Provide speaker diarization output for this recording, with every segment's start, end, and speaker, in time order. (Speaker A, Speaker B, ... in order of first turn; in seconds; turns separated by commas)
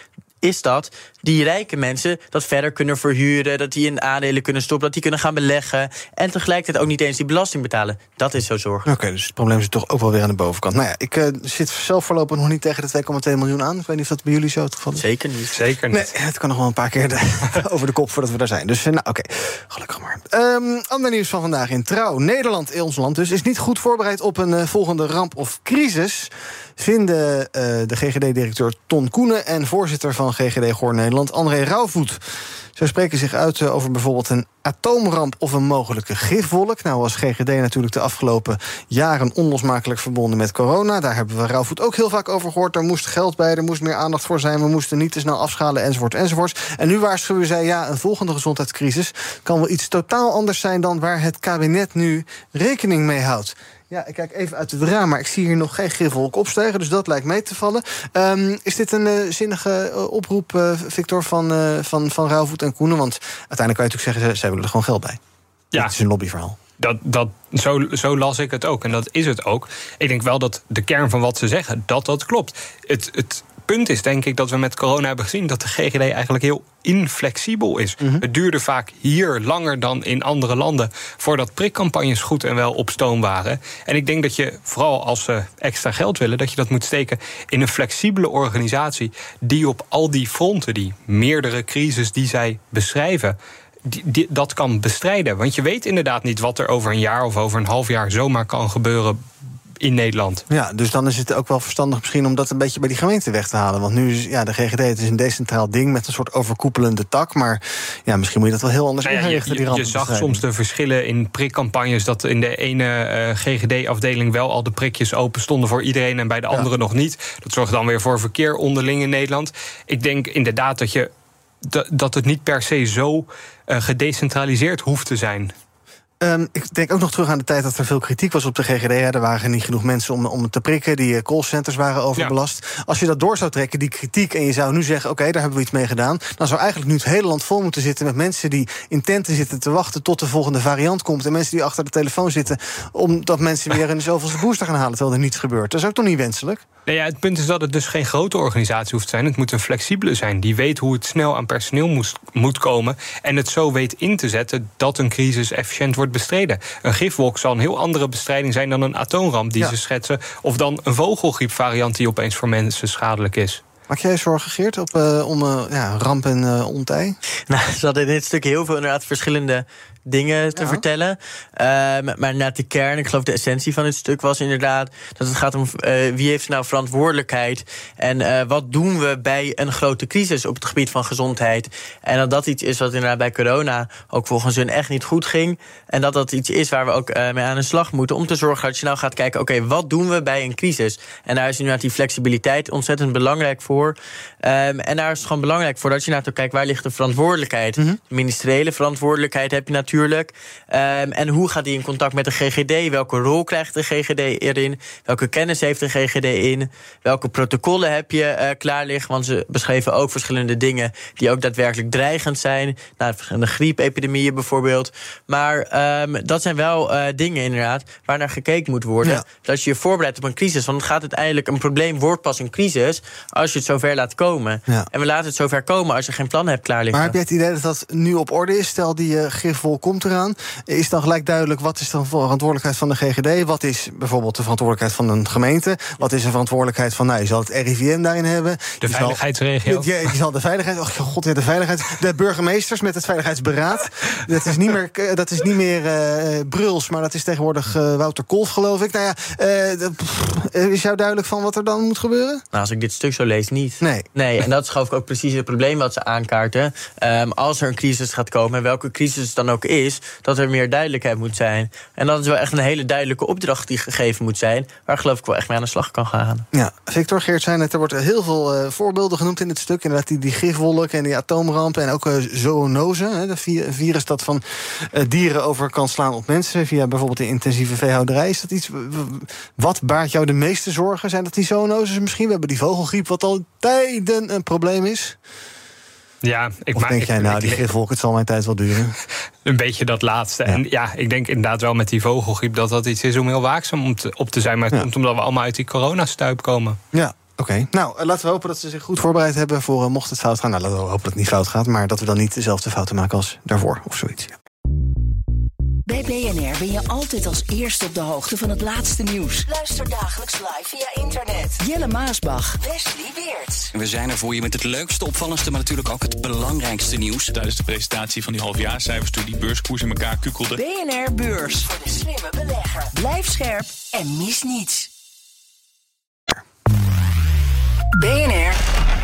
Speaker A: 0.4-8.9, Speaker B: 8.8-15.0, Speaker A: 15.0-15.6, Speaker C: 15.5-16.1, Speaker B: 15.9-32.2, Speaker B: 32.8-65.2, Speaker B: 65.8-66.6, Speaker C: 66.8-99.2, Speaker C: 99.8-100.4, Speaker B: 100.5-110.4, Speaker C: 109.0-121.1, Speaker C: 121.7-125.5, Speaker B: 126.2-146.6, Speaker C: 146.9-163.6, Speaker B: 163.9-167.2, Speaker A: 167.5-227.2, Speaker B: 170.6-170.8, Speaker B: 226.9-252.4, Speaker C: 238.8-239.9, Speaker A: 252.5-266.5, Speaker B: 253.8-254.1, Speaker B: 266.5-285.2, Speaker C: 286.2-287.7, Speaker B: 286.8-289.0, Speaker C: 289.5-296.8, Speaker B: 296.9-304.4, Speaker D: 305.9-313.7, Speaker E: 313.7-317.3, Speaker F: 317.3-320.6, Speaker D: 320.5-324.9, Speaker D: 328.0-328.6